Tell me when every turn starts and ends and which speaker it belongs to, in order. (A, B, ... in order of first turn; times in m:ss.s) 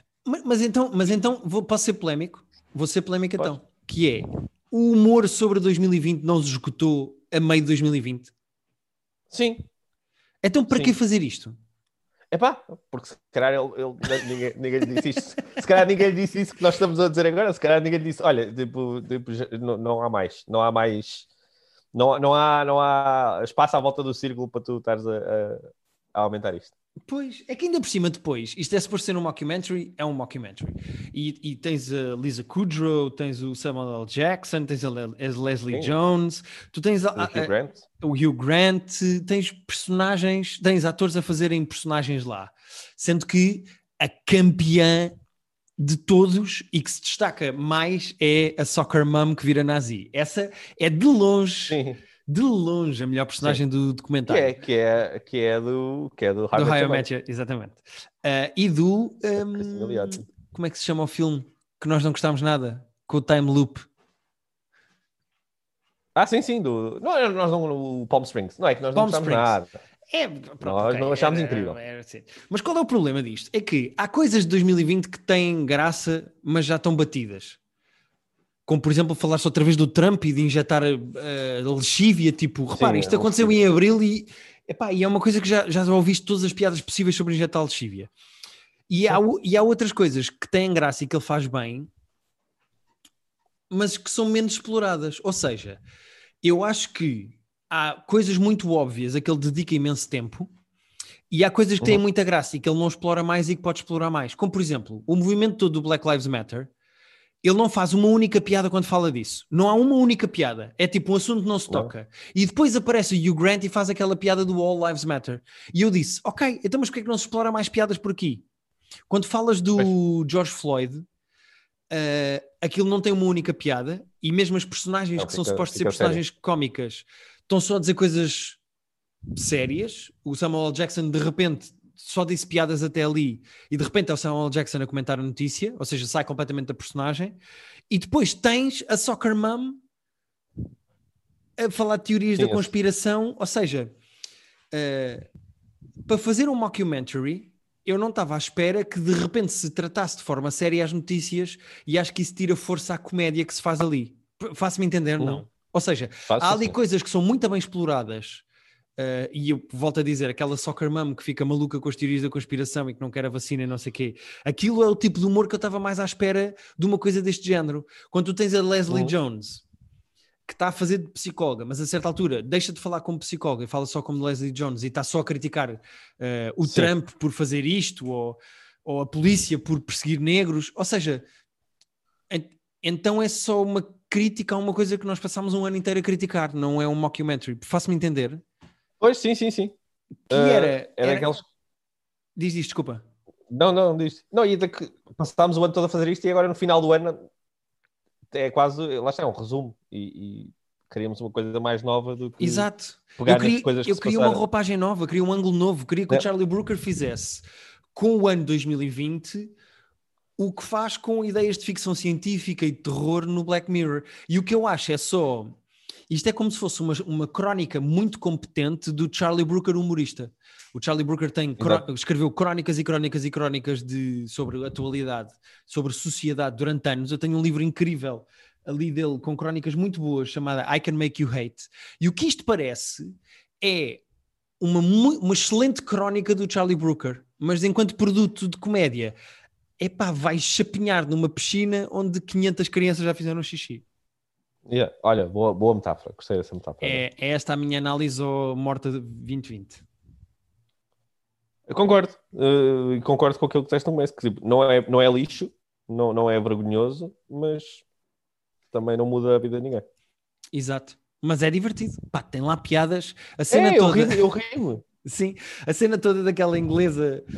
0:00.2-0:08.3 A
0:09.3-0:09.6 B
0:10.4-0:11.5 A
0:10.7-0:10.9 B
0:12.3-0:21.3 B
0:21.9-0:26.7 B
0:27.1-0:45.1 A
0:37.2-0:37.8 B
0:45.8-0:54.5 A
0:51.7-0:52.0 B
0:54.3-0:57.0 B
0:56.5-1:03.9 A
0:59.4-1:00.2 B
1:06.2-1:09.7 B
1:08.9-1:09.5 A
1:10.1-1:17.6 A
1:10.6-1:11.8 B
1:18.7-1:28.1 A
1:22.7-1:23.5 B
1:28.9-1:31.9 A
1:33.7-1:35.8 A
1:36.4-1:40.5 A
1:41.3-1:46.7 A
1:47.4-1:58.4 A
1:59.1-2:01.0 A
2:01.9-2:08.6 A
2:05.2-2:06.2 B
2:09.3-2:17.4 A
2:17.9-2:19.8 A
2:21.6-2:23.9 A
2:22.4-2:22.7 B
2:24.7-2:25.3 A
2:26.0-2:38.4 A
2:36.3-2:36.7 B
2:39.0-2:49.6 A
2:48.9-2:49.1 B
2:50.5-3:01.2 A
2:56.6-2:56.9 B
3:02.3-3:08.4 A
3:09.0-3:09.7 B
3:10.3-3:11.3 A
3:10.3-3:11.4 B
3:12.4-3:13.0 A
3:13.5-3:17.2 B
3:18.3-3:22.7 B
3:22.4-3:27.4 A
3:23.2-3:24.4 B
3:27.9-3:29.5 A
3:30.4-3:35.6 A
3:36.1-3:54.0 A
3:54.6-3:59.1 A
3:59.8-4:03.8 A
4:04.7-4:07.0 B
4:06.8-4:09.8 A
4:11.7-4:17.8 B
4:18.7-4:19.8 B
4:20.5-4:24.3 A
4:23.5-4:24.8 B
4:25.0-4:27.2 A